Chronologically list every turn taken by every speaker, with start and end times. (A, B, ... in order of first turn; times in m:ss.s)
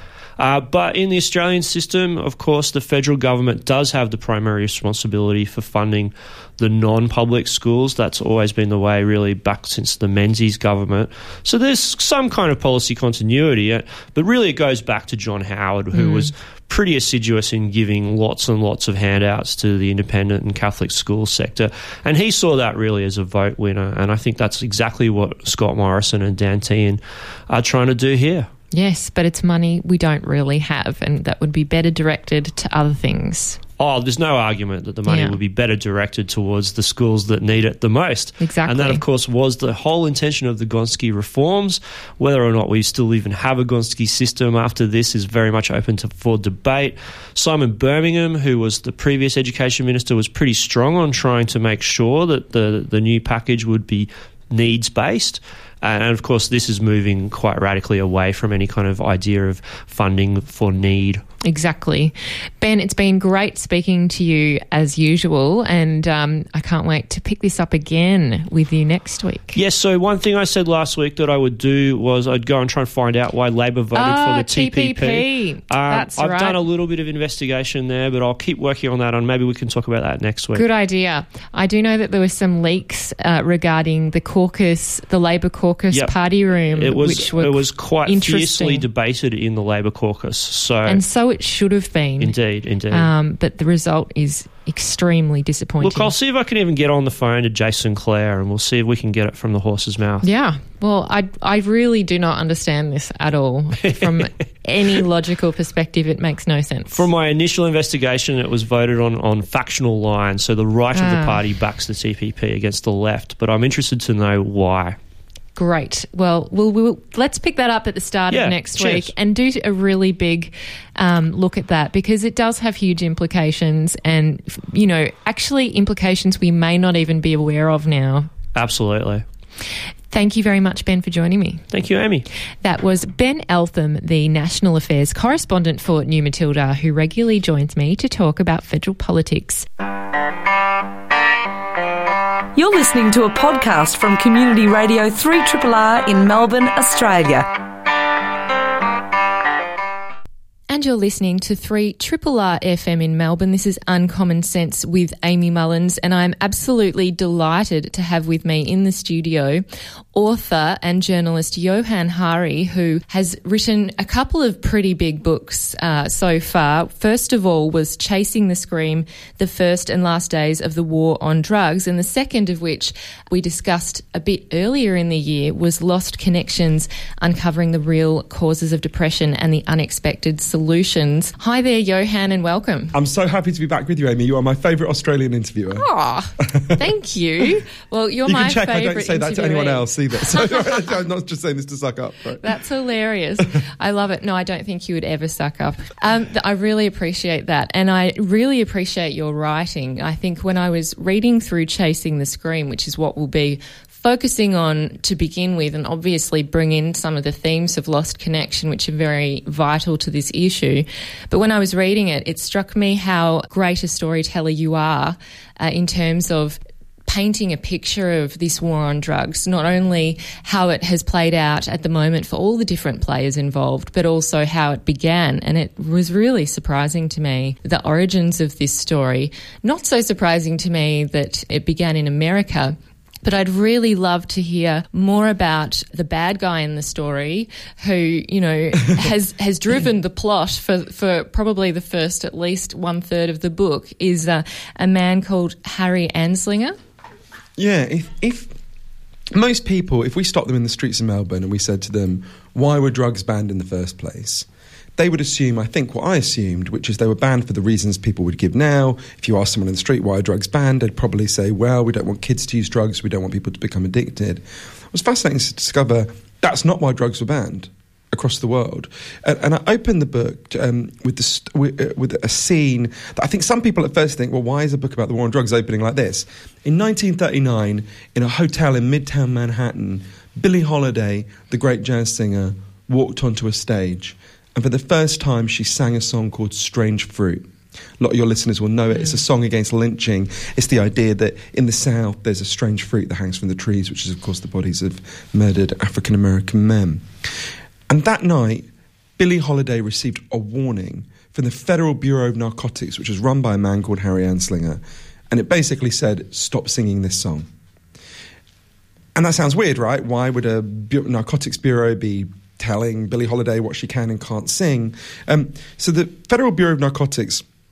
0:00.4-0:28.5 A
0:15.9-0:16.3 B
0:28.7-0:33.6 B
0:33.8-1:01.2 A
0:35.1-0:35.4 B
0:38.4-0:39.0 B
1:01.4-1:09.6 B
1:09.5-1:20.6 A
1:13.9-1:16.6 B
1:20.5-1:28.8 B
1:26.7-1:31.0 A
1:30.8-1:32.3 B
1:32.2-1:33.1 A
1:32.9-1:36.1 B
1:35.8-1:40.2 A
1:40.2-1:47.0 B
1:43.8-1:44.3 A
1:46.9-1:55.0 A
1:50.9-1:51.4 B
1:55.5-2:08.3 B
1:58.3-1:59.1 A
2:08.5-2:09.2 A
2:10.1-2:11.6 B
2:11.7-2:12.3 A
2:12.6-2:19.6 B
2:22.6-2:27.5 C
2:30.7-2:39.6 B
2:40.1-3:02.9 B
3:02.9-3:05.8 D
3:05.8-3:10.8 B
3:06.4-3:06.8 D
3:08.2-3:12.6 D
3:12.4-4:06.8 B
4:07.6-4:08.5 D
4:09.3-4:14.4 D
4:15.0-4:47.4 D
4:48.0-4:57.0 D
4:57.9-4:58.7 D
4:59.2-5:07.4 D
5:09.1-5:17.4 D